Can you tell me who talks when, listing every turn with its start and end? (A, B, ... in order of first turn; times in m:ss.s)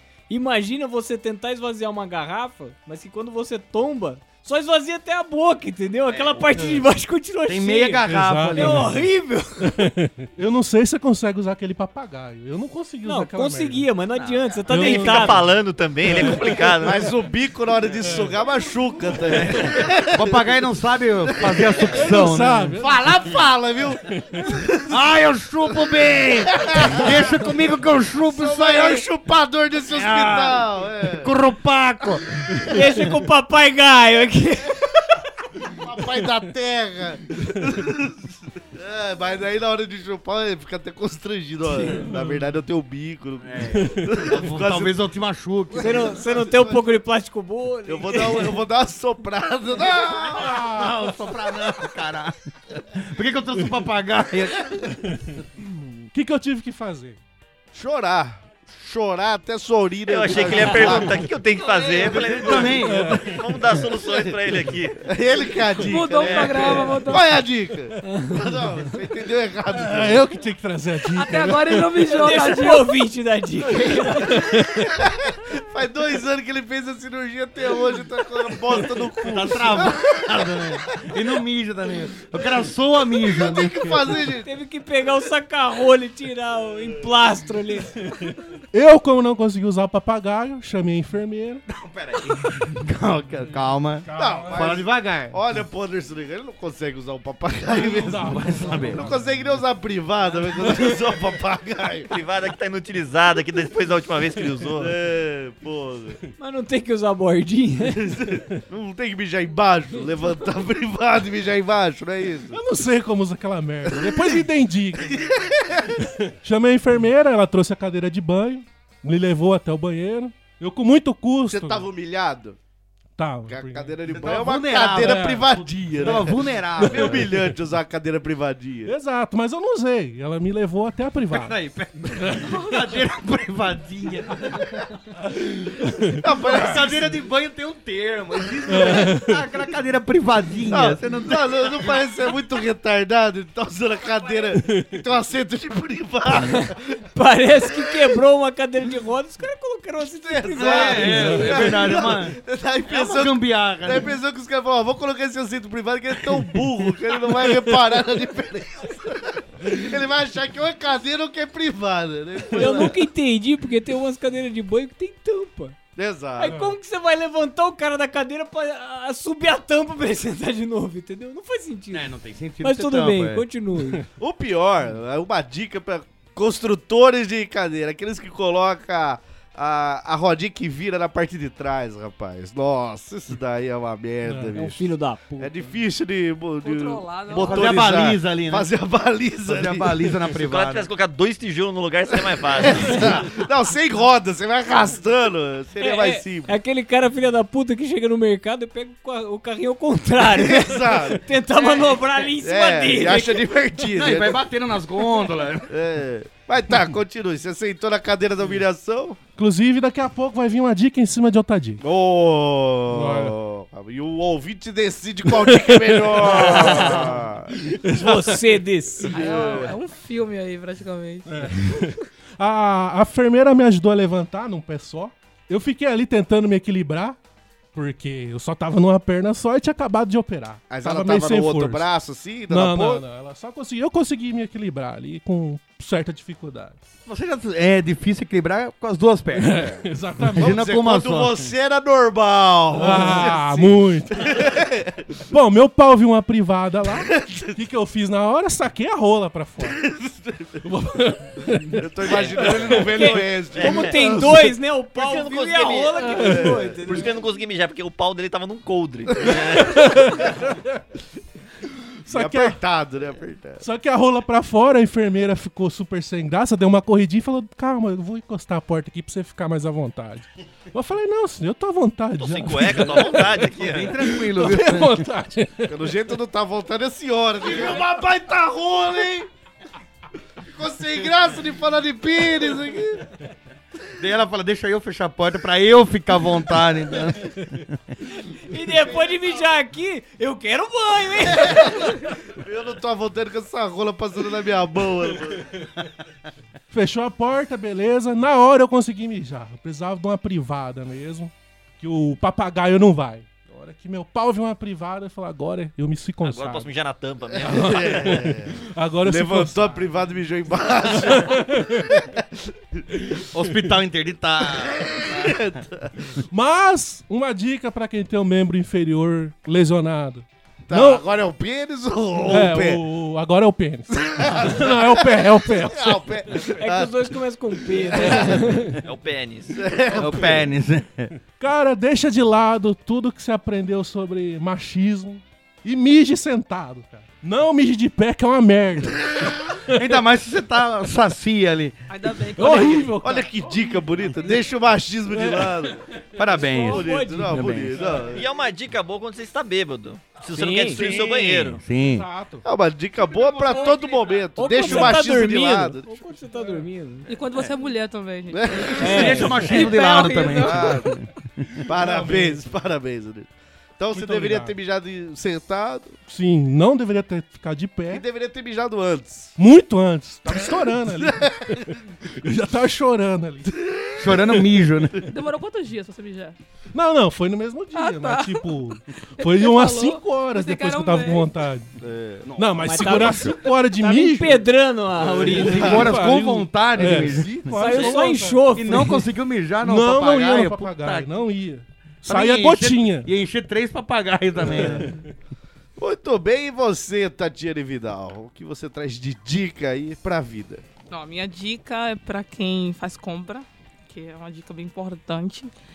0:00.3-0:09.8 A
0:06.1-0:06.5 B
0:06.6-0:06.9 C
0:07.4-0:09.0 D
0:08.1-0:09.0 C
0:09.6-0:13.9 C
0:13.0-0:15.4 A
0:14.2-0:17.0 B
0:14.7-0:16.9 C
0:16.8-0:20.6 E
0:18.0-0:18.3 C
0:19.3-0:22.7 D
0:21.3-0:22.1 E
0:21.9-0:23.0 C
0:22.7-0:25.0 E
0:24.2-0:24.5 C
0:24.9-0:29.0 D
0:26.5-0:27.4 E
0:28.2-0:31.3 E
0:29.9-0:32.3 D
0:32.7-0:34.8 A
0:35.7-0:38.2 E
0:38.7-0:45.0 E
0:41.8-0:42.4 C
0:43.4-0:46.2 D
0:45.8-0:46.9 E
0:45.8-0:48.6 A
0:47.9-0:50.8 E
0:50.2-0:54.8 D
0:50.3-0:51.0 C
0:56.1-0:57.2 C
0:57.7-1:01.3 E
1:00.1-1:05.0 B
1:00.8-1:01.2 C
1:01.8-1:03.2 D
1:02.7-1:03.6 C
1:03.8-1:04.3 E
1:05.0-1:10.4 E
1:05.8-1:07.3 F
1:06.0-1:07.1 B
1:08.0-1:08.6 A
1:09.7-1:12.0 C
1:11.1-1:12.9 F
1:12.0-1:14.4 A
1:13.8-1:15.0 C
1:14.9-1:21.2 E
1:19.3-1:23.9 D
1:23.2-1:24.5 E
1:24.4-1:27.9 A
1:28.1-1:31.6 C
1:31.7-1:35.4 D
1:34.0-1:34.8 C
1:34.1-1:42.1 E
1:37.7-1:39.5 C
1:38.3-1:39.0 D
1:42.1-1:44.9 B
1:44.8-1:46.2 E
1:46.4-1:48.0 A
1:47.9-1:52.6 E
1:52.5-1:55.2 C
1:55.1-1:56.0 E
1:56.2-2:01.9 C
2:01.5-2:02.6 E
2:03.2-2:04.0 C
2:03.5-2:08.9 E
2:04.1-2:07.3 D
2:05.0-2:06.1 C
2:06.9-2:07.2 C
2:08.8-2:11.5 C
2:11.3-2:14.7 D
2:12.2-2:12.5 C
2:12.5-2:12.9 F
2:15.3-2:16.2 C
2:16.2-2:17.2 E
2:16.4-2:22.0 D
2:18.7-2:19.4 C
2:20.7-2:26.8 E
2:24.6-2:24.9 C
2:26.3-2:31.6 A
2:30.2-2:43.0 E
2:30.5-2:34.1 D
2:31.1-2:31.6 C
2:37.2-2:37.7 C
2:42.5-2:45.8 A
2:42.6-2:42.9 C
2:46.0-2:46.6 E
2:46.4-2:54.0 A
2:46.4-2:46.7 C
2:51.9-2:53.4 D
2:54.2-3:10.1 E
3:04.2-3:04.5 C
3:04.5-3:05.5 A
3:06.6-3:07.8 F
3:07.3-3:08.7 D
3:09.4-3:10.9 D
3:10.3-3:13.3 B
3:12.2-3:16.5 E
3:15.8-3:23.5 A
3:20.2-3:21.2 E
3:22.4-3:24.4 E
3:23.9-3:25.7 D
3:25.7-3:29.2 E
3:29.4-3:31.8 C
3:31.8-3:37.6 E
3:32.9-3:33.3 C
3:35.5-3:38.2 C
3:36.2-3:37.1 A
3:37.8-3:39.3 A
3:39.1-3:39.7 E
3:39.1-3:41.8 F
3:41.3-3:47.2 C
3:47.7-3:51.8 C
3:50.7-3:53.0 E
3:52.5-3:56.8 C
3:57.0-4:01.5 D
3:59.3-4:00.6 C
4:00.4-4:05.1 E
4:02.7-4:04.2 C
4:05.3-4:09.8 C
4:07.0-4:07.6 E
4:09.6-4:10.6 E
4:10.6-4:13.2 C
4:11.8-4:14.2 E
4:12.1-4:12.5 B
4:12.7-4:17.1 A
4:13.5-4:14.2 B
4:14.9-4:16.2 B
4:16.2-4:16.5 C
4:16.3-4:16.8 E
4:16.8-4:20.3 B
4:19.4-4:20.8 C
4:22.0-4:22.6 C
4:22.1-4:23.6 E
4:23.6-4:35.8 C
4:32.2-4:33.9 B
4:33.5-4:35.0 D
4:35.7-4:39.3 E
4:40.4-4:43.1 E
4:44.0-4:47.8 D
4:48.1-4:52.0 A
4:51.4-4:55.5 E
4:56.7-5:06.7 C
5:06.2-5:08.2 B
5:07.4-5:09.7 C
5:07.4-5:12.8 E
5:11.0-5:12.0 C
5:13.3-5:15.4 D
5:14.6-5:15.9 E
5:16.2-5:21.0 C
5:20.7-5:22.8 E
5:22.2-5:26.4 C
5:23.9-5:27.1 E
5:26.6-5:28.8 A
5:27.8-5:28.4 E
5:28.8-5:29.7 B
5:29.5-5:30.4 E
5:29.9-5:31.1 D
5:31.4-5:39.8 C
5:39.7-5:41.8 D
5:41.9-5:43.0 F
5:42.3-5:44.3 C
5:43.0-5:45.8 E
5:45.1-5:45.7 C
5:46.2-5:47.9 D
5:46.4-5:47.5 A
5:46.6-5:48.2 E
5:48.1-5:51.6 B
5:50.3-5:50.8 A
5:50.7-5:51.2 E
5:50.8-5:52.4 C
5:51.5-5:52.1 D
5:52.4-5:56.0 E
5:54.3-5:57.1 A
5:54.7-5:55.0 C
5:56.3-5:56.6 C
5:57.1-6:01.0 F
5:58.3-5:59.1 E
5:58.8-5:59.6 A
5:58.8-6:01.1 D
6:00.4-6:00.9 E
6:01.6-6:02.4 C
6:01.7-6:06.0 E
6:03.9-6:04.6 C
6:06.1-6:08.0 C
6:07.9-6:09.4 E
6:09.4-6:13.5 C
6:10.3-6:11.7 E
6:13.5-6:14.5 E
6:14.0-6:15.0 D
6:15.1-6:16.4 F
6:16.7-6:21.7 C
6:17.7-6:21.4 F
6:21.8-6:22.3 E
6:22.2-6:23.3 D
6:22.4-6:24.4 C
6:22.6-6:25.8 A
6:25.1-6:26.0 E
6:25.2-6:27.9 D
6:25.3-6:28.8 C
6:26.8-6:27.5 E
6:27.5-6:29.0 A
6:28.5-6:31.2 D
6:29.6-6:33.1 C
6:32.0-6:34.9 D
6:34.4-6:35.0 C
6:35.8-6:40.6 E
6:40.9-6:45.5 F